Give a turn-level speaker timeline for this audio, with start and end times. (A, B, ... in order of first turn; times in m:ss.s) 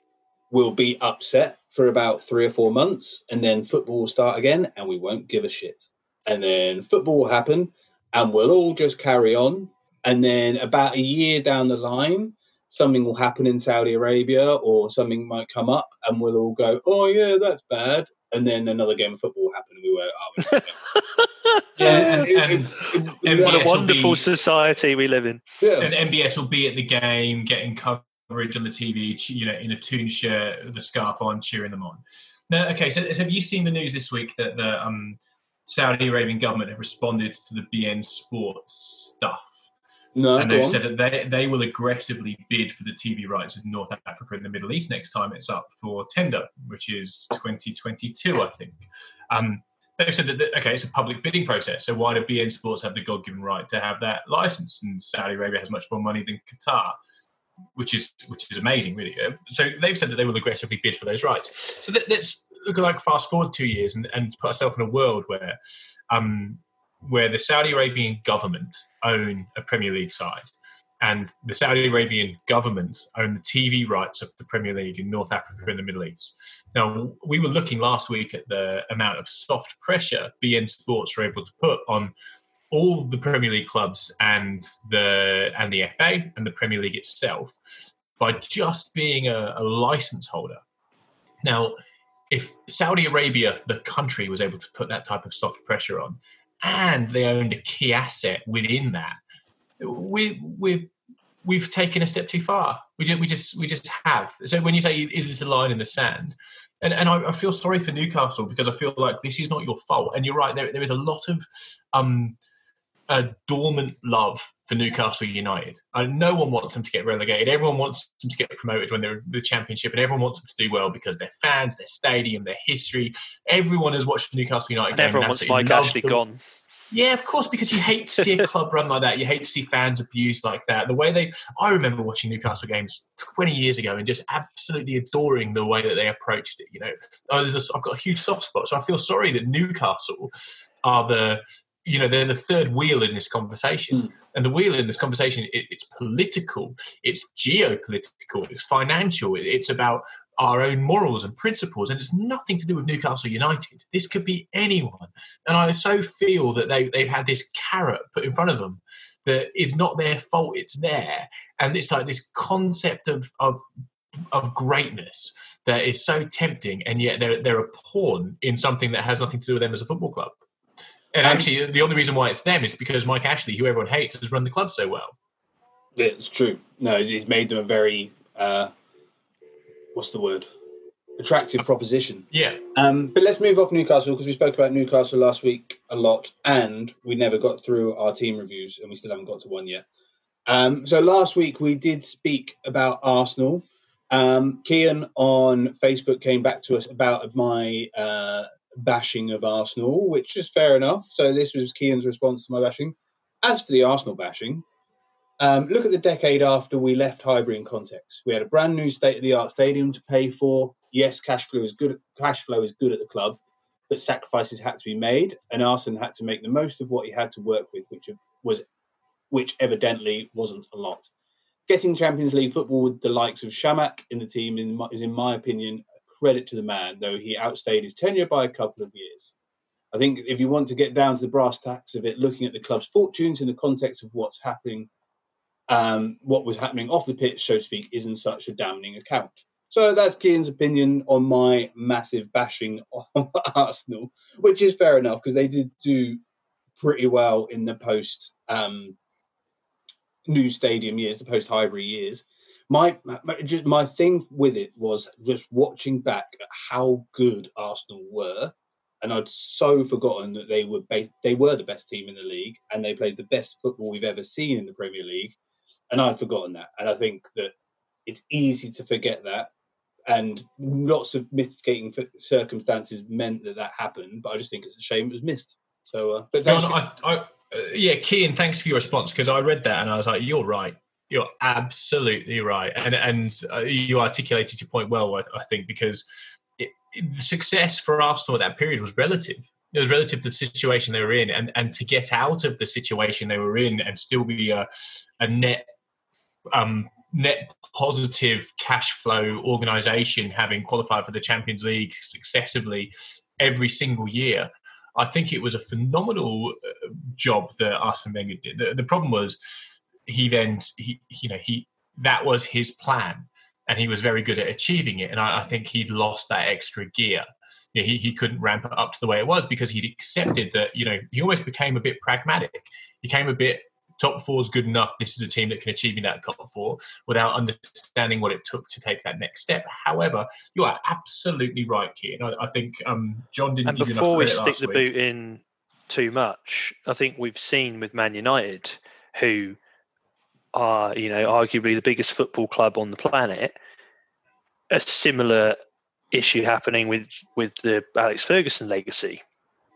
0:00.5-0:20.8 A
0:20.4-0:22.3 B
0:21.8-0:24.2 C
0:21.8-0:23.7 A
0:23.3-0:25.4 B
0:25.6-0:25.9 A
0:25.8-0:39.5 C
0:40.2-0:40.8 A
0:40.4-0:57.0 C
0:57.8-1:05.6 C
1:06.1-1:10.5 C
1:11.0-1:22.1 C
1:22.7-1:27.6 C
1:28.2-1:30.6 C
1:31.4-1:31.8 C
1:32.3-1:39.2 C
1:39.8-1:40.9 C
1:41.4-1:52.4 C
1:53.1-2:06.2 C
2:04.9-2:06.4 B
2:06.9-2:20.3 C
2:20.8-2:43.6 C
2:44.3-2:50.4 C
2:51.1-2:55.2 C
2:51.2-2:51.5 A
2:56.0-2:58.7 A
2:59.9-3:00.5 A
3:01.2-3:09.8 A
3:02.3-3:02.6 C
3:10.5-3:24.6 A
3:25.4-3:38.6 A
3:39.3-3:41.1 A
3:41.7-3:49.3 A
3:49.9-3:54.9 A
3:55.7-4:06.2 A
4:06.8-4:09.0 A
4:10.3-4:25.4 A
4:25.9-4:27.6 A
4:28.1-4:29.5 A
4:30.1-4:36.8 A
4:36.4-4:46.0 C
4:46.6-4:54.7 C
4:55.2-4:55.7 C
4:56.5-5:09.4 C
5:10.1-5:34.9 C
5:33.7-5:39.6 B
5:40.5-5:43.6 B
5:44.7-5:45.6 B
5:46.1-5:49.2 B